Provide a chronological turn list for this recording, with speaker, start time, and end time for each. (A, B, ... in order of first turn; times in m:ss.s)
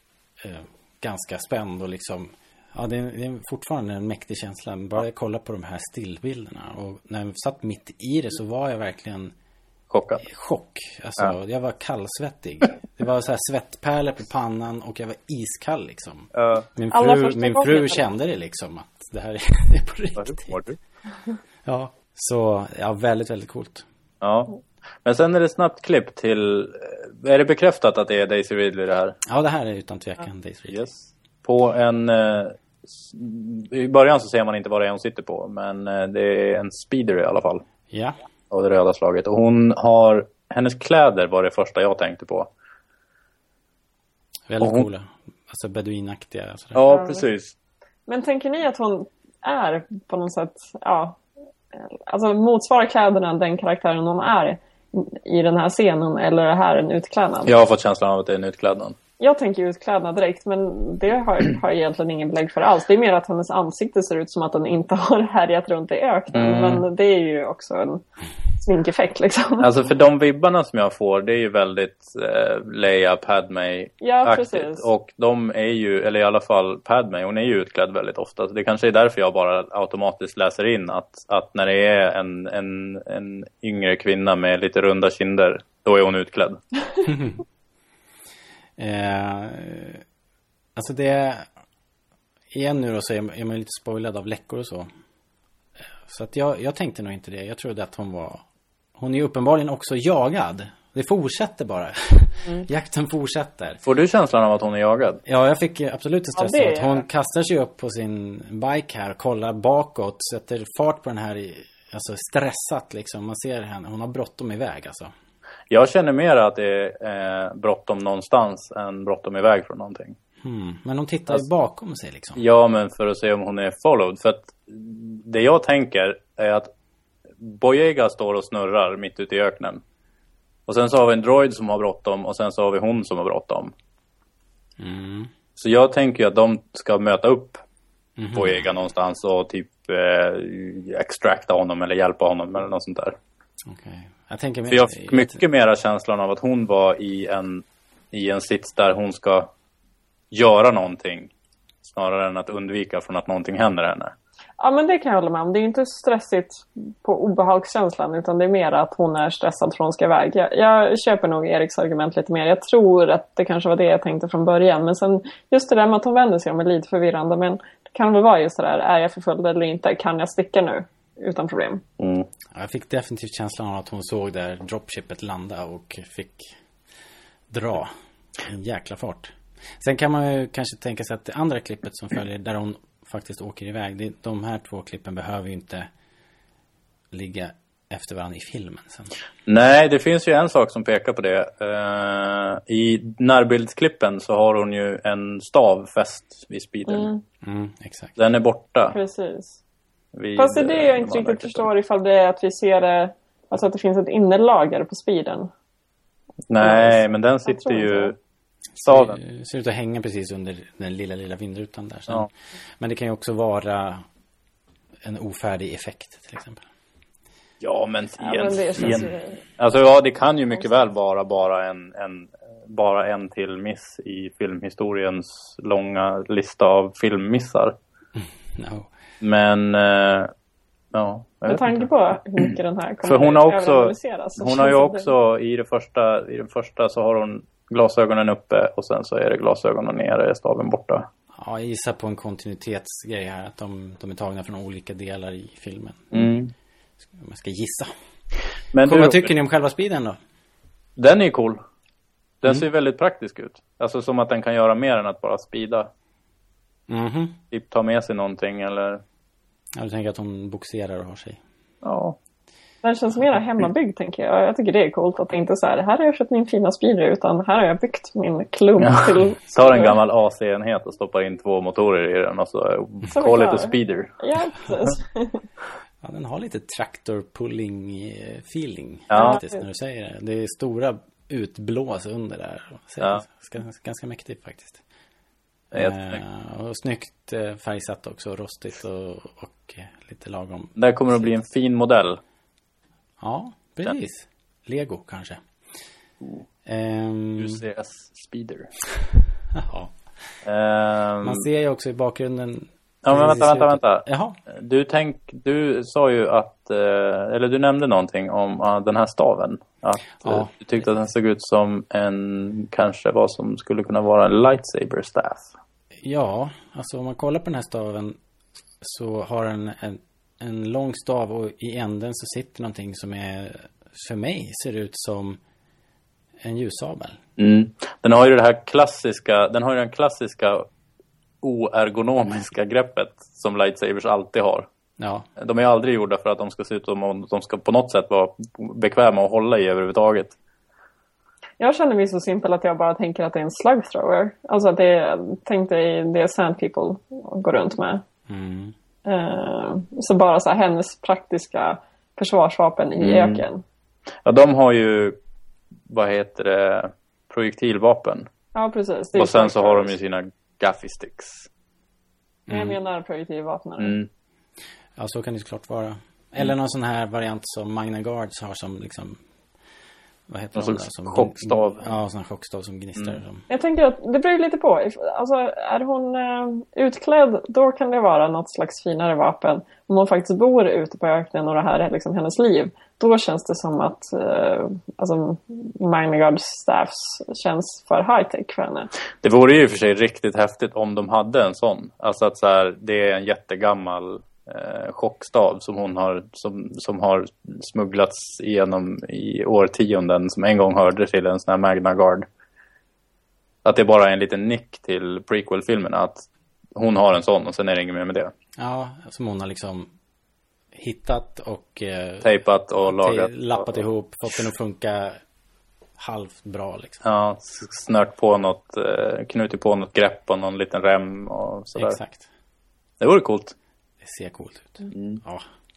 0:00.4-0:09.3 A
0:09.9-0:10.2 B
0:10.2-0:20.6 A
0:16.3-0:16.7 B
0:16.9-0:18.0 C
0:20.2-0:20.8 B
0:21.6-0:23.8 A
0:24.2-0:29.2 B
0:29.2-0:30.8 A
0:30.7-0:37.6 B
0:37.9-0:38.2 A
0:38.5-0:42.5 B
0:44.5-0:46.8 A
0:44.6-0:44.9 B
0:46.7-0:47.5 B
0:46.9-0:47.2 C
0:48.1-0:51.2 C
0:51.7-0:57.5 C
0:57.4-0:59.0 B
0:59.2-1:08.0 C
1:06.3-1:06.8 B
1:08.6-1:09.7 C
1:09.6-1:26.6 B
1:14.0-1:14.9 C
1:27.0-1:27.4 A
1:28.8-1:30.0 A
1:30.8-1:31.5 A
1:32.5-1:34.9 A
1:36.1-1:38.4 A
1:39.0-1:43.8 A
1:43.8-1:45.2 B
1:45.2-1:55.1 A
1:46.4-1:47.0 C
1:55.7-2:00.2 B
2:00.4-2:02.4 A
2:02.4-2:06.7 B
2:07.4-2:09.8 B
2:10.7-2:13.7 B
2:14.8-2:15.3 A
2:15.6-2:17.6 B
2:18.2-2:18.7 A
2:18.3-2:23.2 B
2:23.6-2:25.4 A
2:24.7-2:29.5 B
2:30.3-2:31.3 B
2:31.8-2:34.1 B
2:34.6-2:51.8 C
2:52.0-2:52.2 B
2:52.5-2:56.5 A
2:57.5-2:57.9 A
2:58.4-3:05.9 A
3:07.1-3:09.1 A
3:09.5-3:17.1 B
3:16.9-3:17.2 C
3:17.4-3:18.1 A
3:18.2-3:19.0 B
3:18.9-3:19.6 C
3:20.1-3:21.7 B
3:20.4-3:25.5 C
3:26.5-3:28.2 B
3:26.6-3:28.1 C
3:28.8-3:32.3 A
3:28.8-3:29.2 B
3:32.8-3:34.0 A
3:35.0-3:36.6 A
3:37.6-3:47.7 B
3:38.2-3:39.4 C
3:48.6-3:48.9 A
3:49.2-3:50.3 B
3:50.9-3:51.8 B
3:51.5-3:55.1 C
3:53.0-4:01.1 B
4:01.4-4:06.3 A
4:06.1-4:06.5 B
4:07.2-4:07.9 A
4:08.7-4:09.3 B
4:08.8-4:10.2 A
4:11.0-4:11.6 B
4:12.4-4:15.9 B
4:16.9-4:17.4 A
4:17.5-4:19.0 B
4:19.8-4:21.4 A
4:21.8-4:22.2 B
4:22.8-4:30.0 C
4:28.8-4:34.2 B
4:33.1-4:35.4 C
4:36.0-4:44.8 A
4:39.1-4:39.4 B
4:39.1-4:39.6 C
4:45.7-4:46.2 B
4:45.7-4:51.4 A
4:50.8-4:52.2 B
4:53.2-4:55.4 A
4:56.6-4:57.6 A
4:57.4-4:58.7 B
4:59.5-4:59.9 A
5:00.4-5:01.4 B
5:01.2-5:04.4 A
5:03.0-5:15.5 B
5:10.2-5:10.5 A
5:16.0-5:18.2 A
5:18.8-5:25.4 A
5:26.4-5:27.2 A
5:27.4-5:30.7 B
5:31.4-5:34.7 B
5:35.0-5:35.3 A
5:35.4-5:40.3 B
5:41.6-5:48.0 C
5:48.3-5:48.7 A
5:49.0-5:53.6 C
5:53.0-5:53.4 B
5:54.2-5:55.2 B
5:55.9-5:58.3 B
5:58.5-5:59.9 C
5:59.1-6:01.5 B
6:02.5-6:02.8 A
6:02.5-6:04.0 C
6:03.8-6:04.1 B
6:05.0-6:09.2 A
6:10.3-6:13.4 A
6:10.6-6:11.8 B
6:13.5-6:28.9 C
6:29.2-6:42.2 B
6:43.6-6:48.3 B
6:48.6-6:49.9 A
6:50.7-6:52.3 A
6:52.2-6:53.8 B
6:52.9-6:55.2 A
6:56.0-6:57.0 A
6:57.0-7:02.0 B
7:01.8-7:02.3 A
7:03.0-7:03.5 B
7:04.0-7:05.4 A
7:04.9-7:05.2 B